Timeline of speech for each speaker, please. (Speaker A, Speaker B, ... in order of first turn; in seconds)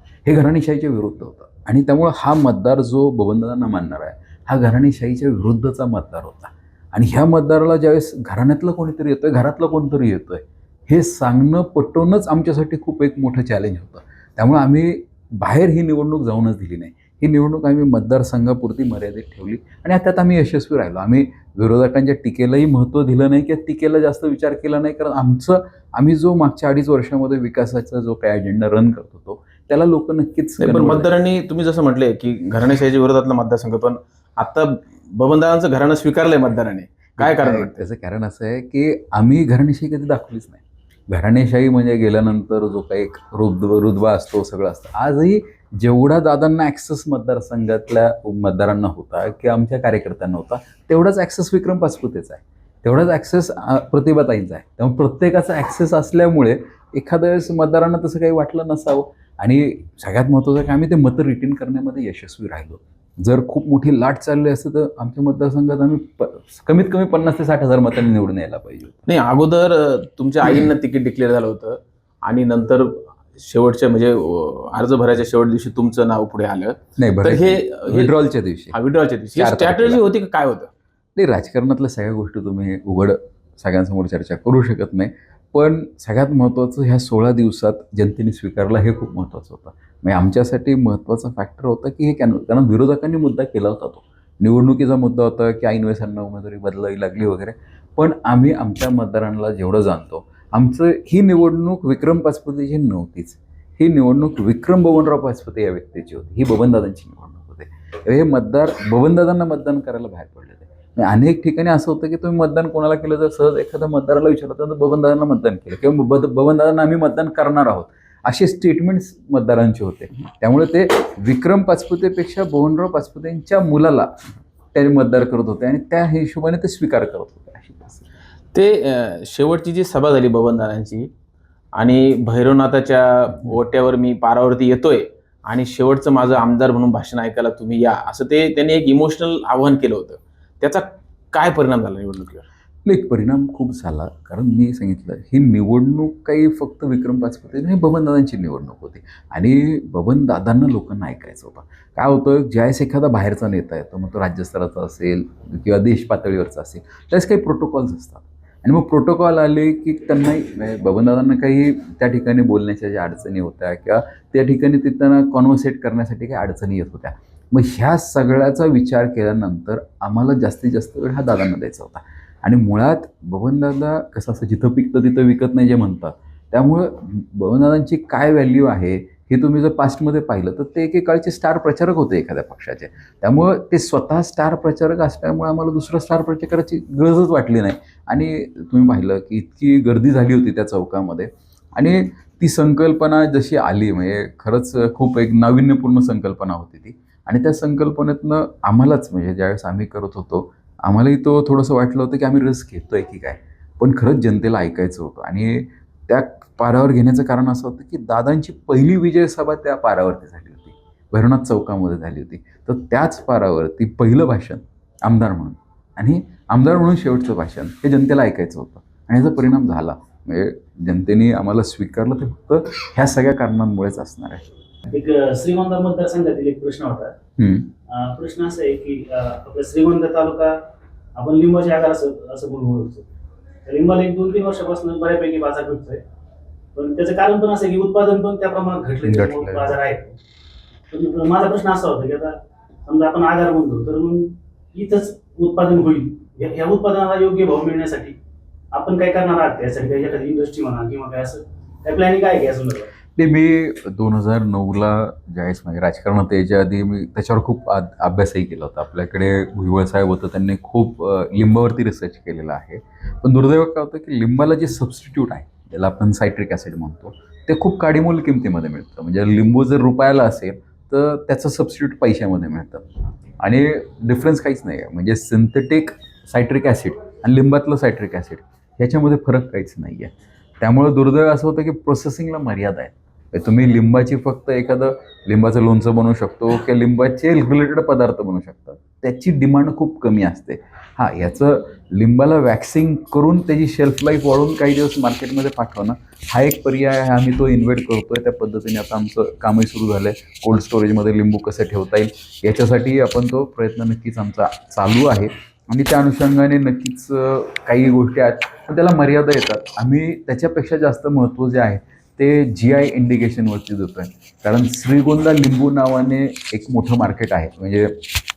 Speaker A: 0.2-31.1, 37.2-69.1, 77.0-78.8, 79.4-80.0, 81.2-124.1, 124.7-128.0, 142.8-224.4, 227.4-227.7, 239.0-239.8, 253.2-272.8, 273.4-318.0
Speaker B: 30.6-37.8, 69.1-78.1, 78.7-80.7, 128.5-131.1, 131.8-142.4
Speaker C: 224.9-227.2, 227.9-230.6, 231.2-233.1, 233.7-236.0, 236.8-240.2, 240.9-248.2, 248.7-252.9